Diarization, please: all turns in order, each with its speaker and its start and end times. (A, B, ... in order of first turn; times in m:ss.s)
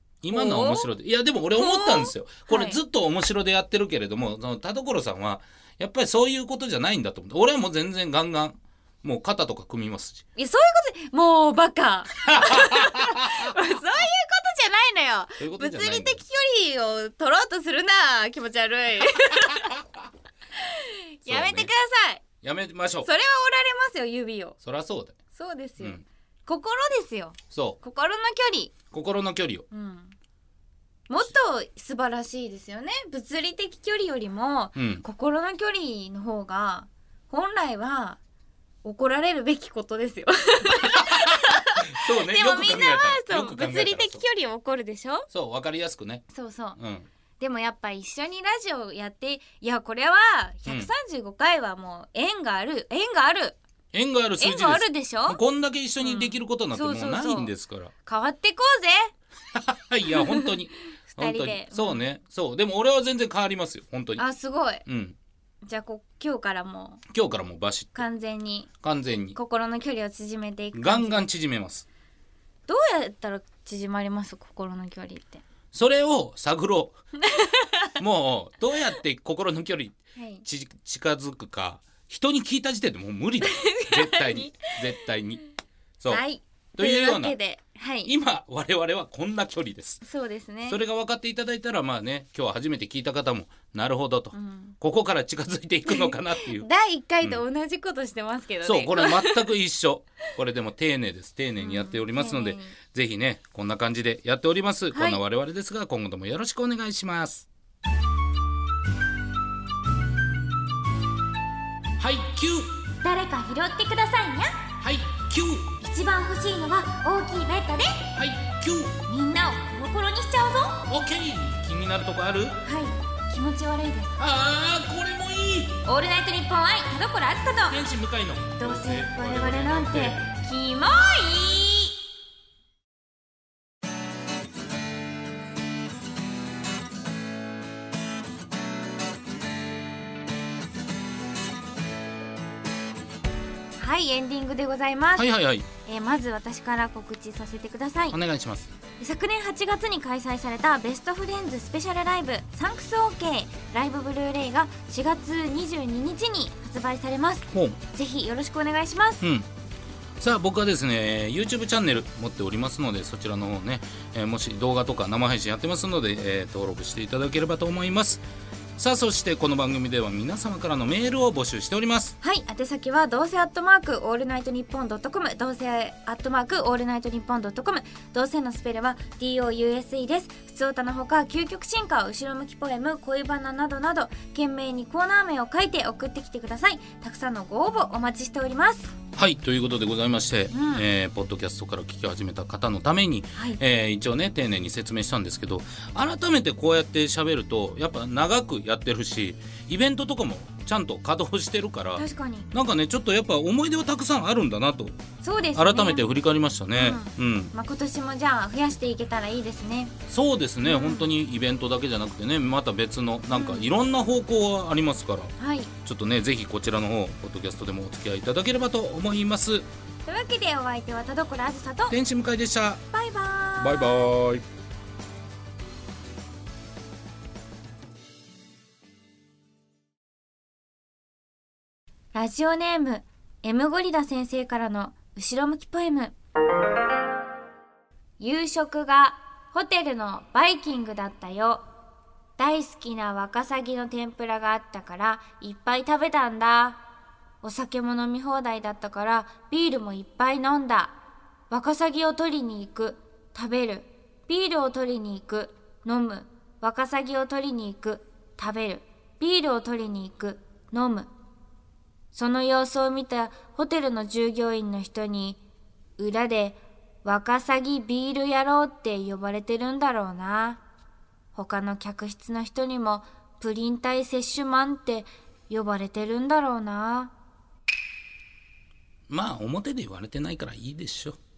0:00.2-0:10.2 A
0:00.3-0:00.9 B
0:01.5-0:02.8 B
0:10.4-0:19.8 B
0:12.2-0:13.6 A
0:15.4-0:16.2 A
0:20.6-0:22.2 B
0:21.3-0:21.7 A
0:22.4-0:23.1 A
0:23.0-0:24.6 B
0:24.6-0:25.2 A
0:25.3-0:28.7 B
0:27.5-0:27.8 A
0:28.9-0:29.6 A
0:29.7-0:30.1 B
0:31.1-0:38.2 B
0:34.8-0:35.0 A
0:38.8-0:45.3 B
0:40.9-0:44.2 A
0:45.3-0:46.2 A
0:46.3-0:46.8 B
0:46.8-0:47.1 A
0:47.4-0:53.6 B
0:50.7-0:50.9 A
0:53.9-0:57.9 A
0:54.4-0:55.4 B
0:56.0-0:57.5 B
0:58.0-0:59.1 B
0:59.5-1:04.2 A
1:00.2-1:00.5 B
1:01.1-1:02.0 B
1:04.2-1:04.8 B
1:04.9-1:05.2 A
1:05.6-1:07.0 B
1:07.1-1:08.0 A
1:08.0-1:08.7 B
1:08.8-1:09.4 A
1:09.4-1:11.2 B
1:10.7-1:11.8 A
1:12.7-1:15.4 B
1:15.7-1:17.0 A
1:17.2-1:18.0 B
1:18.0-1:25.4 A
1:20.2-1:20.4 B
1:23.4-1:25.0 B
1:26.1-1:28.1 B
1:26.8-1:27.4 A
1:28.0-1:30.0 A
1:30.0-1:30.8 B
1:30.7-1:36.7 A
1:34.3-1:34.8 B
1:35.9-1:39.4 B
1:38.6-1:47.5 A
1:41.6-1:42.8 B
1:44.9-1:45.2 B
1:52.0-1:52.7 A
1:53.0-1:54.6 B
1:54.8-1:55.7 A
1:55.8-1:58.1 B
1:58.2-1:59.0 A
1:59.1-2:00.8 B
2:00.9-2:02.6 A
2:02.6-2:04.2 B
2:04.2-2:05.8 A
2:05.8-2:07.9 B
2:07.7-2:10.2 A
2:08.6-2:12.0 B
2:23.8-2:25.3 B
2:25.2-2:25.7 A
2:25.9-2:28.2 B
2:28.1-2:28.7 A
2:29.0-2:39.2 B
2:37.5-2:37.8 A
2:39.2-2:39.5 A
2:40.2-2:48.2 A
2:48.8-2:52.2 A
2:52.2-3:08.9 B
3:09.2-3:24.9 A
3:10.5-3:10.8 B
3:22.0-3:22.5 B
3:25.2-3:26.1 B
3:25.5-3:27.5 A
3:26.8-3:29.9 B
3:30.1-3:35.3 A
3:30.6-3:31.1 B
3:33.3-3:33.7 B
3:35.4-3:35.7 B
3:35.9-3:39.7 A
3:40.0-3:42.0 B
3:41.9-3:42.8 A
3:42.9-3:44.1 B
3:43.6-3:44.4 A
3:52.1-3:56.1 B
3:58.2-4:01.6 B
4:02.4-4:06.8 B
4:07.4-4:11.0 B
4:11.5-4:21.1 B
4:22.1-4:25.4 B
4:26.0-4:30.6 B
4:31.3-4:37.1 B
4:39.1-4:41.2 A